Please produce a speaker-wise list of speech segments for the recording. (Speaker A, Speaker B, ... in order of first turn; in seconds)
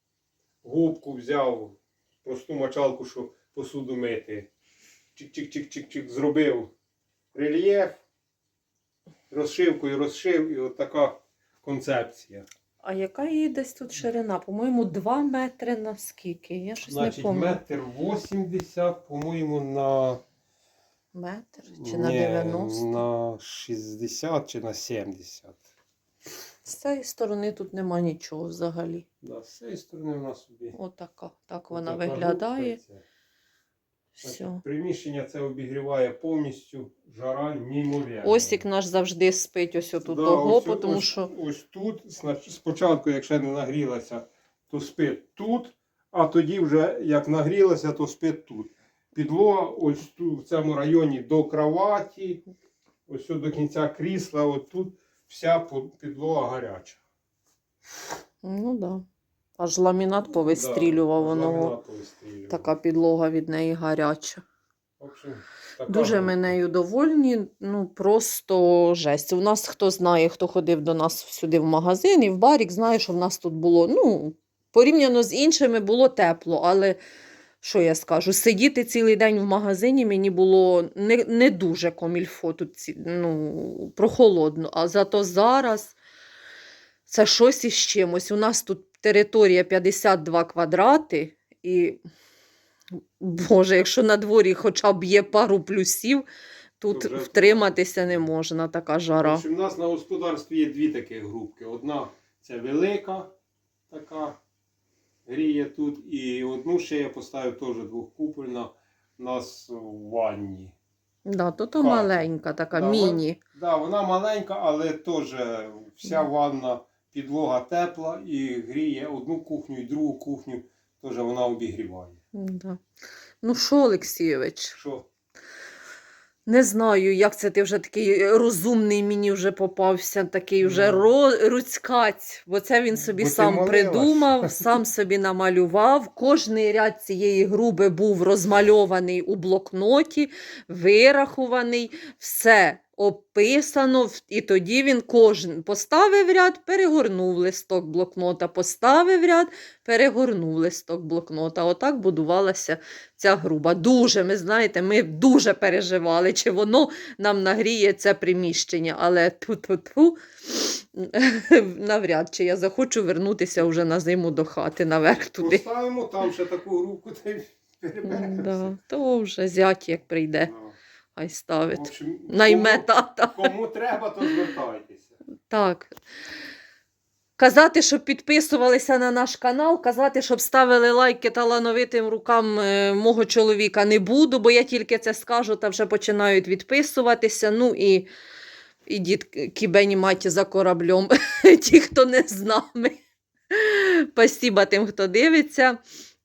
Speaker A: 0.6-4.5, 5.2-6.7, 7.3-8.0, 9.3-12.5, 16.9-20.2, 21.7-25.6, 29.2-30.8, 31.7-33.0, 34.2-38.6, 40.0-52.4, 53.1-57.0, 60.5-62.7, 65.0-66.6, 96.9-98.2, 99.2-103.3, 103.9-104.4, 105.3-110.8, 111.8-112.2, 112.7-122.2, 124.7-125.0, 130.6-131.1, 133.1-134.8, 165.4-168.7, 170.4-170.8, 171.7-175.2
Speaker B: 12.8-17.6, 21.1-23.0, 26.6-29.1, 30.7-32.8, 34.2-34.6, 38.2-41.3, 58.4-59.0, 59.6-61.8, 62.5-64.4, 65.9-77.0, 77.6-86.0, 87.1-92.0, 93.2-96.3, 96.8-99.4, 111.3-113.4, 122.3-122.8, 123.4-124.8, 126.5-165.6, 168.1-170.5, 171.2-173.5, 175.5-176.0, 177.4-188.1, 188.9-193.0, 193.5-195.8